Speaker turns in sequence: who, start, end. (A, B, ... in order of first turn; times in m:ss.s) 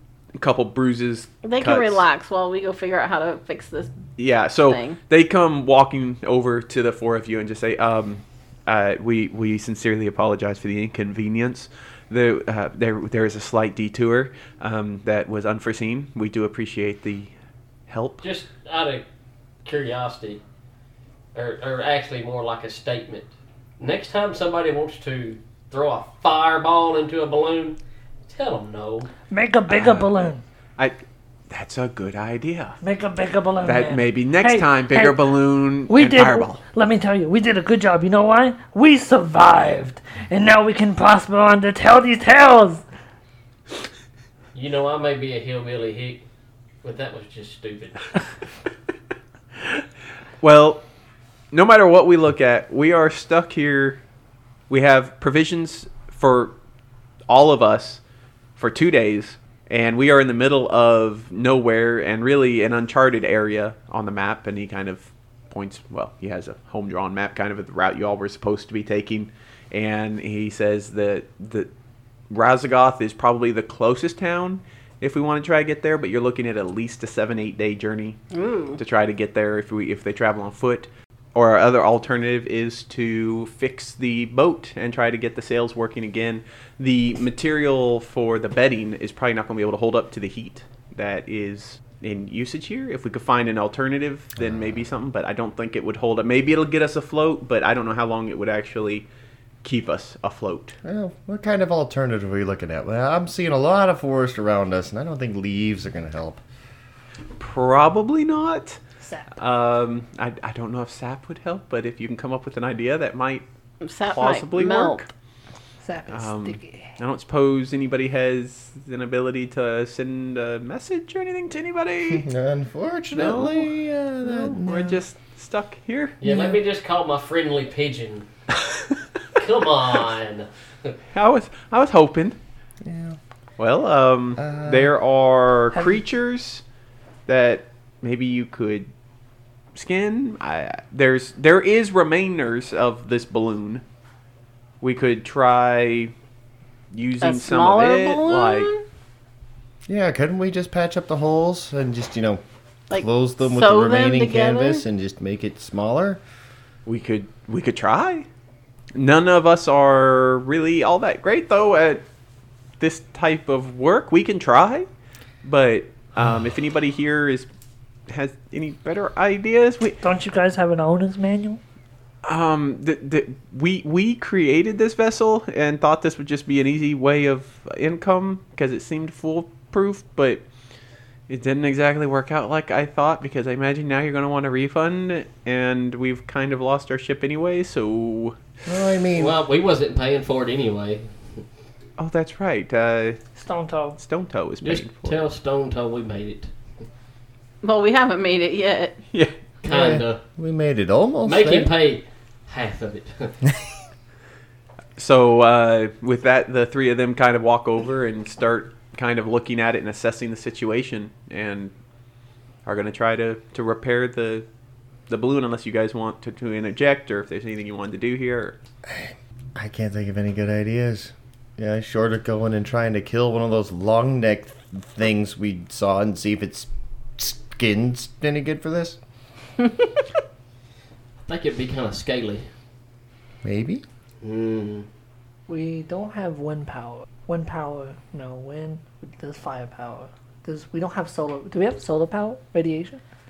0:00.4-0:02.0 A
0:01.4-0:03.9 B
0:04.2-0:17.3 A
0:04.7-0:05.0 B
0:17.9-0:18.2 A
0:18.2-0:19.0 C
0:19.6-0:20.4 C
0:21.4-0:23.3 C
0:23.8-0:27.8 C
0:28.3-0:29.1 C
0:29.3-0:30.4 D
0:29.7-0:30.1 A
0:31.5-0:32.8 A
0:32.8-0:35.2 D
0:33.6-0:36.6 A
0:35.9-0:42.8 D
0:44.5-0:46.2 C
0:46.8-0:48.1 C
0:50.4-0:50.8 A
0:51.5-0:54.0 A
0:54.7-0:56.5 A
0:57.3-0:58.0 A
0:58.6-1:11.7 A
1:12.3-1:18.2 A
1:18.3-1:18.8 B
1:18.8-1:39.1 A
1:39.6-1:40.8 A
1:40.8-1:46.4 E
1:47.4-1:48.8 A
1:49.0-1:49.3 D
1:49.4-1:53.4 A
1:53.8-1:55.0 B
1:54.1-1:55.1 A
1:55.8-1:56.9 D
1:56.1-2:02.3 A
2:02.1-2:05.0 E
2:03.1-2:06.2 A
2:06.2-2:08.3 C
2:09.4-2:10.9 C
2:11.1-2:12.4 A
2:12.8-2:13.2 E
2:13.6-2:16.6 A
2:14.4-2:14.9 E
2:17.3-2:18.9 A
2:19.8-2:23.8 A
2:24.8-2:26.1 A
2:26.9-2:28.7 A
2:27.2-2:28.8 B
2:29.9-2:36.2 E
2:32.9-2:34.8 B
2:36.9-2:38.3 A
2:38.9-2:42.0 A
2:42.8-2:44.9 A
2:45.4-2:47.5 A
2:48.1-2:50.0 A
2:50.0-2:51.6 D
2:52.2-3:00.4 A
3:01.3-3:08.4 A
3:08.7-3:09.4 E
3:09.2-3:11.1 C
3:12.0-3:13.2 A
3:13.4-3:14.0 D
3:14.0-3:15.3 A
3:14.6-3:16.5 C
3:17.6-3:19.0 B
3:19.6-3:20.2 C
3:19.6-3:21.7 E
3:21.2-3:23.4 C
3:25.0-3:31.7 A
3:32.6-3:34.5 A
3:35.1-3:38.6 A
3:38.9-3:49.0 E
3:51.3-3:52.5 C
3:53.4-3:53.8 E
3:54.2-3:54.9 C
3:55.5-4:03.0 D